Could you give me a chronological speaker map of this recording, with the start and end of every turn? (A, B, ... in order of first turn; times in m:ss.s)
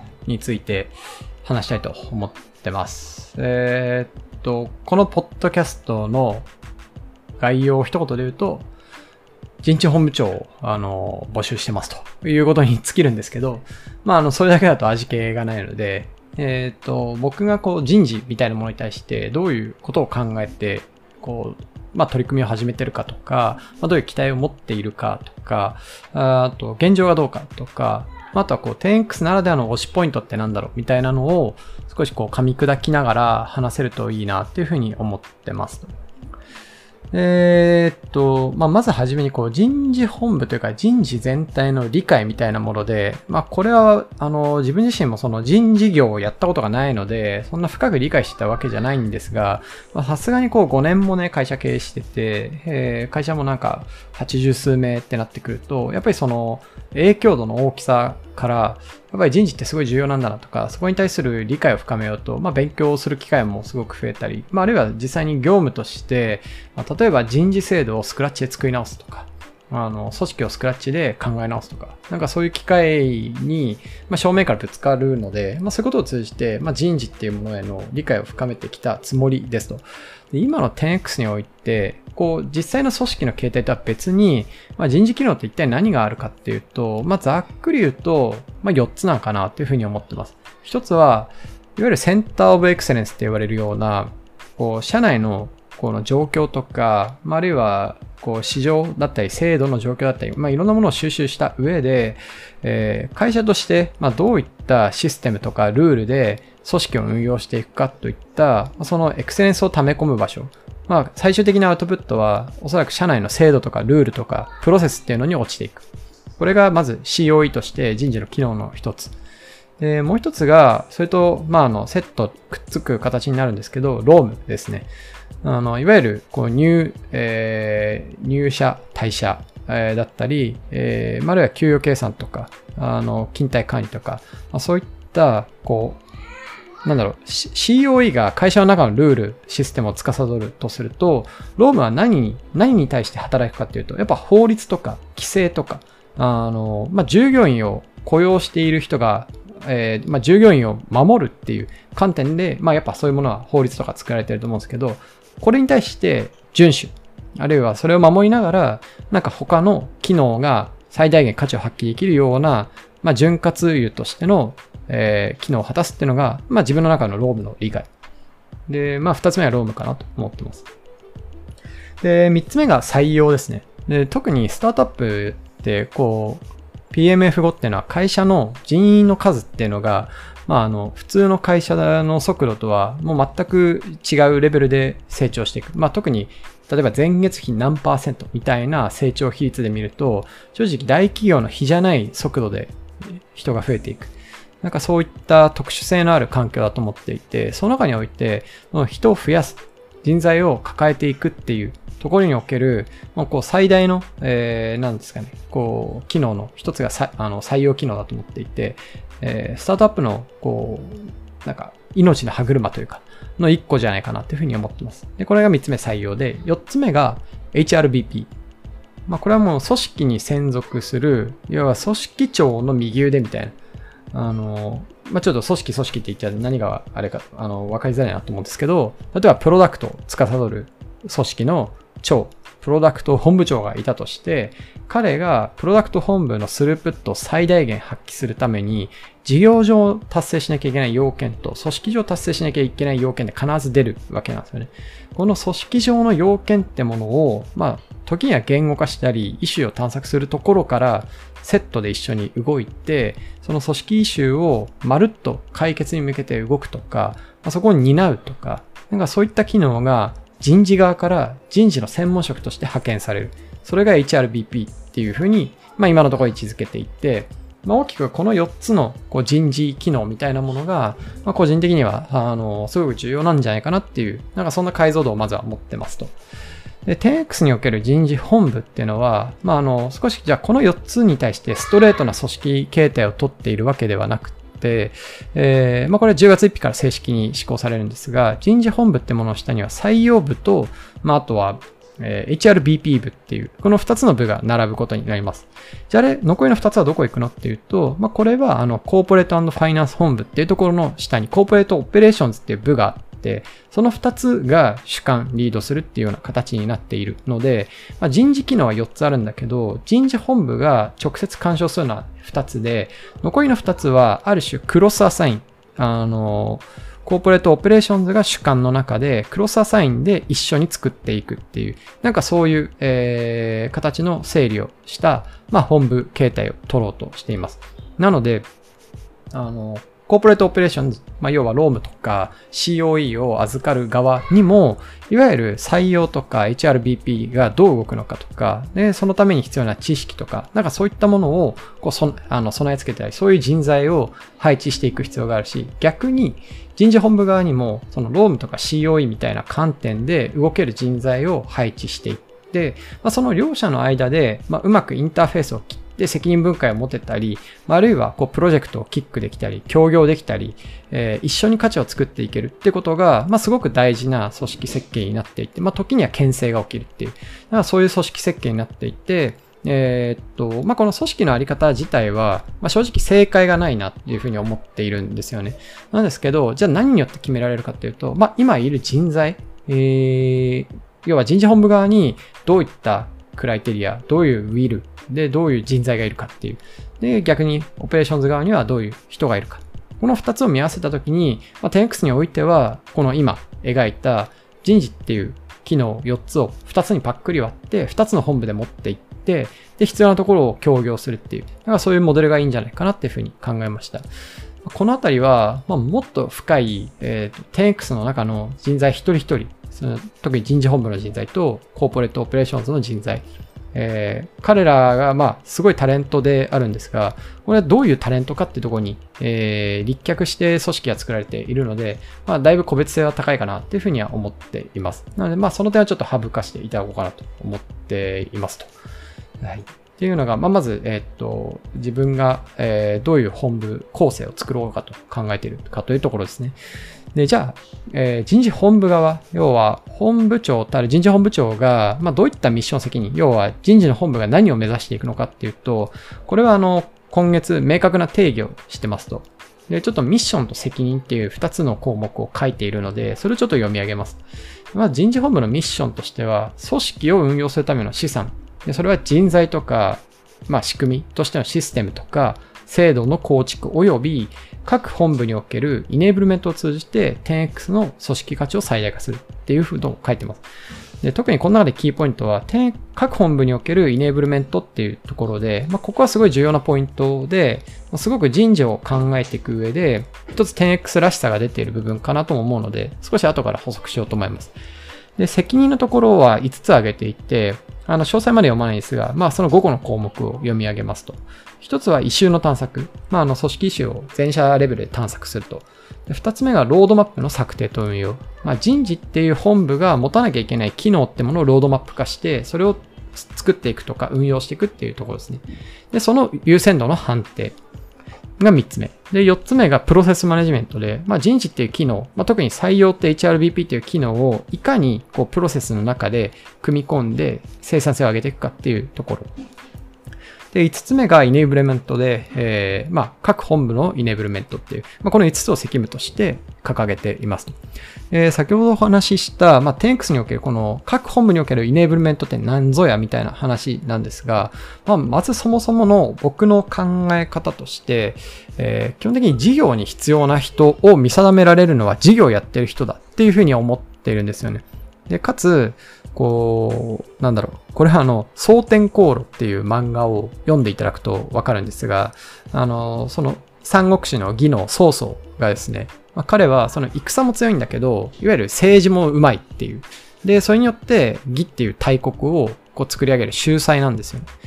0:00.2-0:06.5 A
0:07.4-0:08.7 A
0:09.6-0:35.9 A
0:37.1-1:55.8 A
1:56.4-1:59.1 A
1:59.8-2:04.9 A
2:05.4-2:16.0 A
2:16.8-2:47.9 A
2:48.7-2:50.7 A
2:52.0-3:38.3 A
3:39.1-3:43.6 A
3:44.1-4:36.1 A
4:36.8-5:28.5 A
5:29.3-6:44.0 A
6:44.6-7:08.7 A
7:09.4-7:16.6 A
7:17.1-7:34.2 A
7:34.7-7:50.4 A
7:51.0-8:04.5 A
8:05.2-8:27.6 A
8:28.4-8:39.3 A
8:40.5-8:47.6 A
8:48.1-9:24.3 A